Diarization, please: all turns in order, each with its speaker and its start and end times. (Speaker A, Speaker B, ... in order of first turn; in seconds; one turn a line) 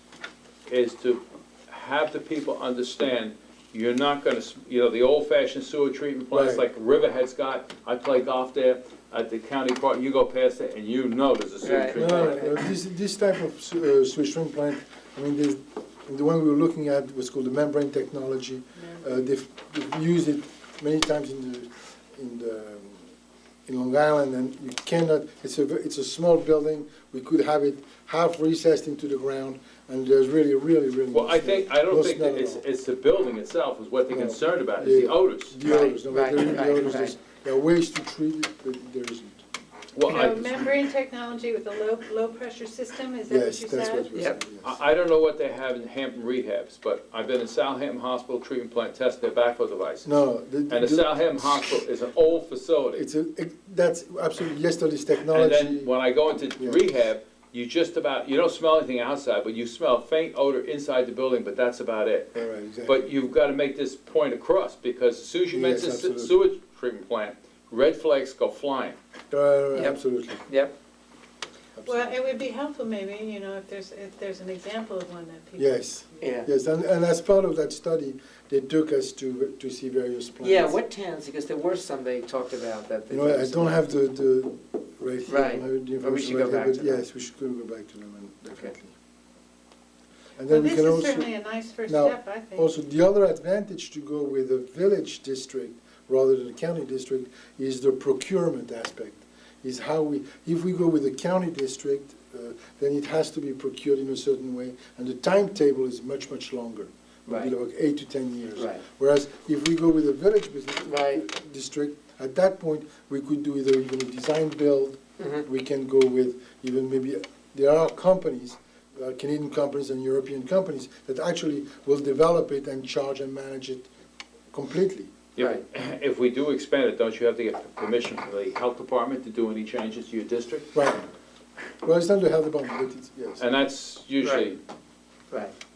Speaker A: 0.7-12.5
Speaker B: 6.3-6.6
Speaker C: 11.6-12.6
Speaker B: 11.9-23.0
Speaker D: 18.8-19.1
Speaker B: 23.7-32.6
Speaker A: 31.1-35.6
Speaker B: 34.1-39.4
Speaker C: 35.6-37.2
Speaker A: 39.9-40.7
Speaker D: 40.0-44.1
Speaker B: 43.3-44.8
Speaker C: 44.1-44.4
Speaker A: 44.6-53.0
Speaker B: 50.0-51.8
Speaker B: 52.9-55.9
Speaker A: 55.3-69.0
Speaker B: 56.5-56.9
Speaker B: 62.3-63.0
Speaker B: 65.5-66.3
Speaker B: 69.3-70.4
Speaker C: 69.8-70.7
Speaker B: 71.8-72.2
Speaker D: 71.8-76.3
Speaker B: 75.6-80.8
Speaker C: 76.2-76.5
Speaker C: 80.4-83.9
Speaker B: 83.1-88.9
Speaker C: 85.3-87.0
Speaker B: 90.4-91.3
Speaker D: 90.5-92.7
Speaker B: 91.9-123.9
Speaker C: 107.2-107.5
Speaker C: 108.6-108.8
Speaker C: 110.8-111.2
Speaker C: 115.2-115.4
Speaker B: 124.5-125.1
Speaker A: 125.4-130.7
Speaker C: 125.4-125.6
Speaker B: 130.7-131.1
Speaker B: 131.8-133.4
Speaker A: 133.4-134.6
Speaker C: 134.2-134.5